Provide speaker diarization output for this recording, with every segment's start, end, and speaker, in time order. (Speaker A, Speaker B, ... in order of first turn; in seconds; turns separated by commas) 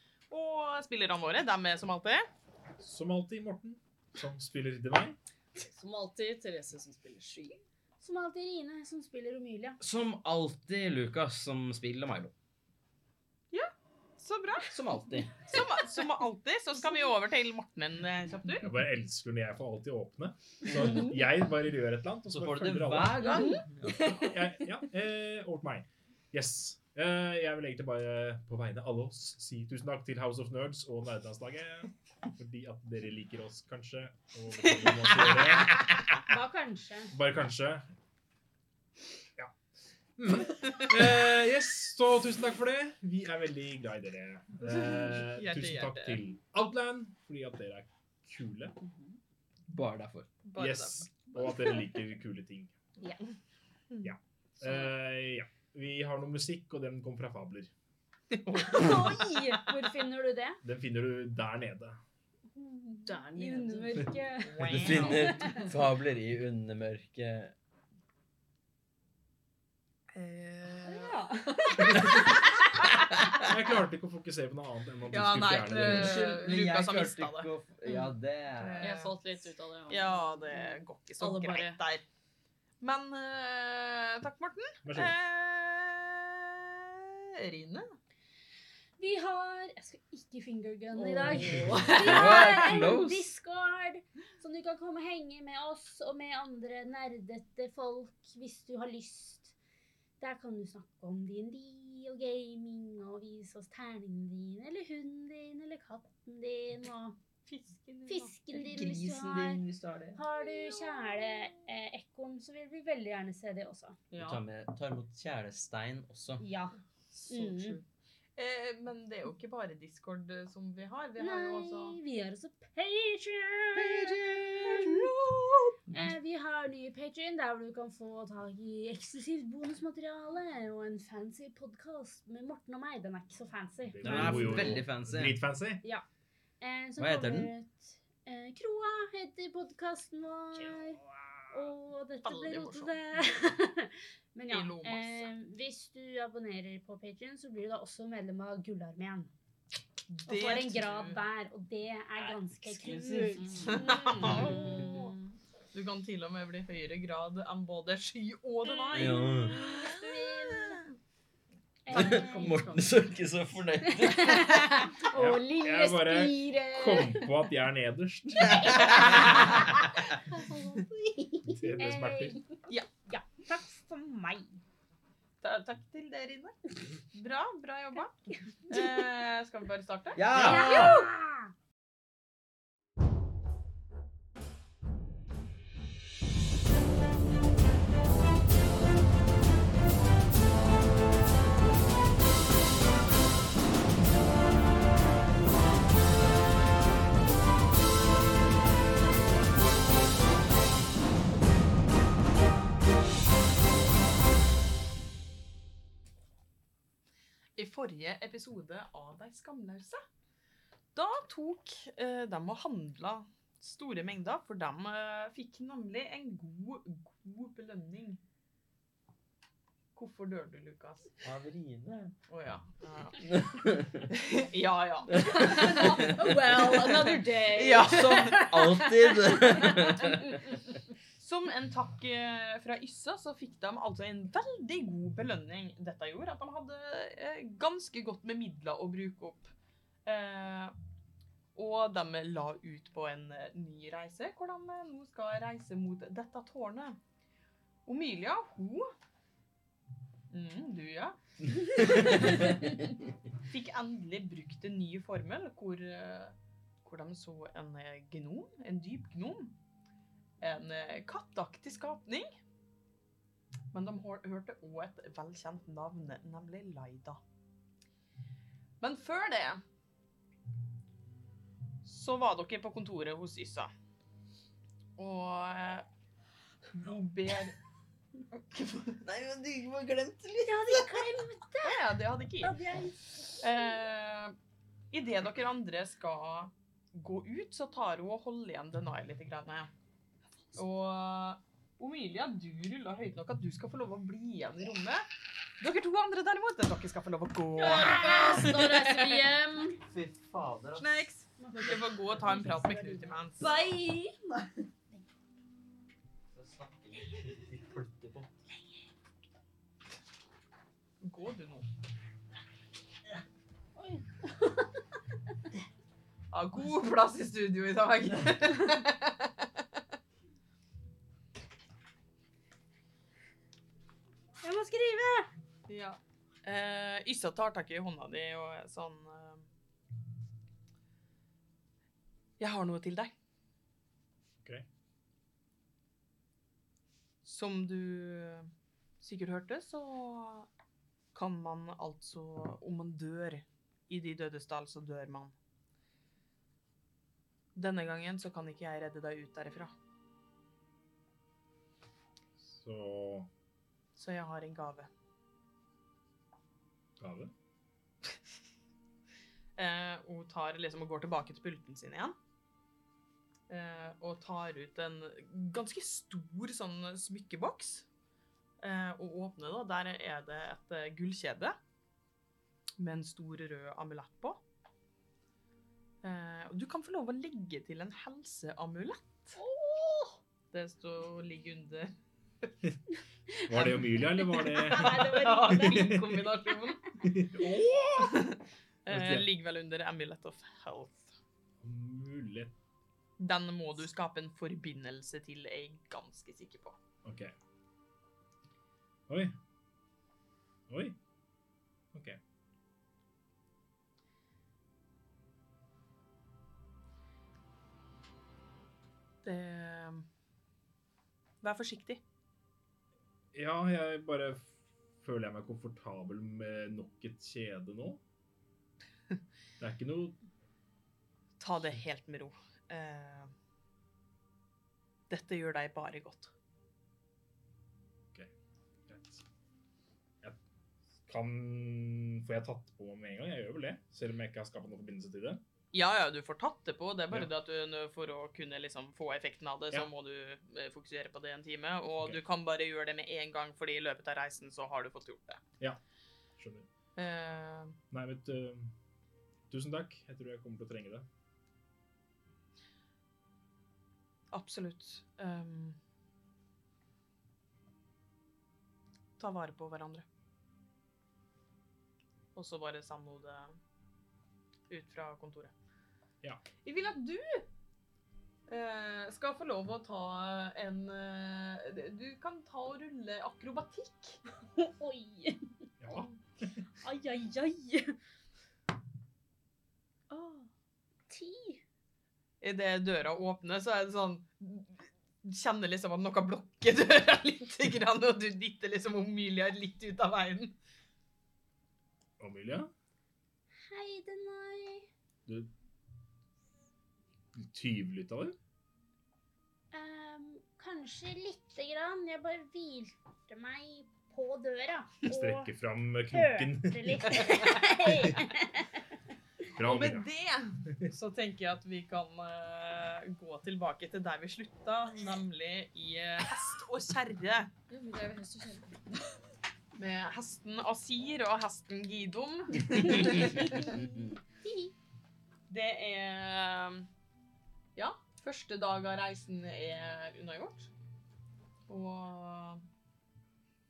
Speaker A: 0.3-2.3, Speaker B: 2.8-5.2, Speaker C: 5.6-7.6, Speaker D: 8.0-9.8, Speaker E: 9.8-12.3, Speaker A: 13.5-14.7, Speaker E: 14.7-15.6, Speaker A: 15.4-18.7, Speaker B: 18.6-23.3, Speaker E: 22.3-24.2, Speaker B: 24.0-36.2, Speaker A: 34.8-35.6, Speaker D: 36.2-37.1, Speaker B: 37.1-37.9, Speaker B: 40.2-48.8, Speaker A: 44.6-46.2, Speaker E: 49.7-50.3, Speaker A: 50.4-51.1, Speaker B: 50.6-52.7, Speaker B: 54.0-57.7, Speaker A: 58.5-59.1, Speaker D: 58.6-60.6, Speaker B: 60.6-62.0, Speaker D: 62.6-65.7, Speaker C: 63.0-64.2, Speaker A: 64.4-65.5, Speaker E: 64.6-67.5, Speaker A: 70.1-71.1, Speaker D: 70.8-72.5, Speaker C: 71.5-72.1, Speaker E: 73.1-73.4, Speaker B: 73.4-76.2, Speaker A: 75.1-77.5, Speaker E: 75.7-78.9, Speaker A: 78.6-79.1, Speaker C: 78.8-81.8, Speaker A: 79.9-82.0, Speaker A: 82.8-87.9, Speaker B: 84.8-85.1, Speaker D: 89.0-99.5, Speaker C: 90.9-92.5, Speaker E: 91.7-93.3, Speaker D: 100.2-107.2, Speaker A: 107.5-108.3, Speaker D: 108.1-109.6, Speaker E: 108.5-110.2, Speaker D: 110.1-114.0, Speaker C: 114.1-114.4, Speaker E: 114.2-116.4, Speaker D: 116.4-116.8, Speaker C: 117.1-117.8, Speaker D: 117.3-117.8, Speaker A: 118.3-122.0, Speaker D: 121.2-125.1, Speaker E: 123.8-125.2, Speaker D: 125.9-134.9, Speaker B: 133.9-135.8, Speaker E: 134.0-135.4, Speaker D: 136.6-141.0, Speaker E: 137.0-137.5, Speaker D: 141.5-149.3, Speaker A: 142.2-142.9, Speaker A: 144.5-145.2, Speaker A: 150.1-151.2, Speaker D: 150.2-155.1, Speaker C: 152.8-154.8, Speaker E: 152.9-153.4, Speaker A: 153.6-155.1, Speaker A: 155.7-159.3, Speaker E: 158.9-159.7, Speaker D: 159.4-160.8, Speaker D: 161.8-162.7, Speaker E: 161.9-164.8, Speaker C: 161.9-162.8, Speaker D: 163.9-167.3, Speaker B: 165.1-169.0, Speaker D: 168.4-174.6, Speaker E: 168.4-169.8, Speaker B: 171.5-172.4, Speaker A: 175.4-176.6, Speaker A: 177.1-181.1, Speaker D: 178.7-179.0, Speaker E: 180.1-181.0, Speaker D: 180.3-181.5, Speaker A: 207.6-210.0, Speaker A: 210.9-218.2, Speaker A: 219.9-221.1, Speaker E: 221.2-222.2, Speaker A: 222.3-223.4, Speaker E: 223.2-224.0, Speaker A: 224.1-228.4, Speaker C: 225.2-230.3, Speaker E: 227.7-230.4, Speaker A: 231.2-239.5, Speaker A: 240.0-240.7, Speaker A: 241.5-247.0, Speaker A: 247.8-248.9, Speaker A: 250.3-251.2, Speaker A: 251.7-252.9, Speaker E: 252.0-252.4, Speaker A: 253.4-259.6, Speaker A: 260.4-262.4, Speaker A: 263.7-267.2, Speaker A: 268.8-269.6, Speaker A: 271.8-273.7, Speaker A: 275.0-275.9, Speaker A: 276.7-277.6, Speaker A: 278.3-279.0, Speaker E: 279.0-281.2, Speaker D: 280.4-281.8, Speaker A: 281.6-282.6, Speaker D: 282.4-283.6, Speaker A: 283.4-284.3, Speaker A: 284.9-289.7, Speaker A: 290.5-295.1, Speaker A: 295.6-298.1, Speaker C: 297.6-299.7, Speaker D: 297.6-299.8, Speaker E: 299.8-301.0, Speaker A: 300.8-303.5, Speaker D: 301.4-305.0, Speaker E: 306.3-308.4, Speaker A: 311.0-311.7, Speaker D: 313.8-314.7, Speaker A: 316.3-319.5, Speaker D: 324.4-325.3, Speaker A: 325.7-329.4, Speaker A: 332.4-333.1, Speaker A: 337.2-338.5, Speaker A: 339.0-340.5, Speaker A: 341.1-345.3, Speaker A: 347.6-349.7, Speaker B: 352.4-353.3, Speaker A: 353.9-354.9, Speaker B: 357.0-357.3, Speaker A: 359.6-362.1, Speaker A: 363.5-367.9, Speaker A: 368.6-371.6, Speaker A: 372.8-374.4, Speaker A: 376.0-379.4, Speaker D: 379.4-380.1, Speaker A: 380.5-381.9, Speaker B: 383.4-386.3, Speaker D: 384.4-386.0, Speaker A: 384.6-386.8, Speaker B: 387.0-388.2, Speaker A: 387.8-391.1, Speaker B: 388.9-389.3, Speaker B: 391.6-392.5, Speaker A: 393.2-396.8, Speaker B: 397.0-397.3, Speaker B: 399.1-399.4, Speaker B: 400.7-401.0, Speaker B: 401.9-402.2, Speaker A: 409.2-410.1, Speaker A: 411.4-412.0, Speaker B: 413.3-418.0, Speaker B: 419.6-420.2, Speaker A: 421.4-423.3, Speaker A: 425.1-426.3, Speaker B: 428.9-429.2, Speaker B: 431.1-435.4, Speaker A: 435.7-445.4, Speaker B: 446.4-446.7, Speaker A: 446.9-447.8, Speaker B: 447.9-448.7, Speaker B: 449.5-451.0, Speaker A: 454.3-455.8, Speaker A: 459.2-460.0, Speaker A: 462.3-463.6, Speaker A: 464.7-465.5, Speaker A: 466.6-467.5, Speaker A: 468.5-474.2, Speaker D: 474.6-476.1, Speaker B: 475.8-476.6, Speaker D: 476.8-477.9, Speaker D: 480.1-480.5, Speaker D: 481.1-481.6, Speaker A: 482.4-490.5, Speaker B: 492.2-492.7, Speaker D: 493.7-494.9, Speaker B: 497.3-498.4, Speaker D: 499.7-505.5, Speaker B: 505.1-507.1, Speaker D: 506.1-508.8, Speaker A: 507.1-507.9, Speaker B: 509.5-510.0, Speaker A: 509.6-517.5, Speaker C: 517.7-519.0, Speaker A: 519.7-523.6, Speaker D: 523.6-524.7, Speaker A: 525.5-526.9, Speaker A: 527.8-530.7, Speaker A: 531.7-532.6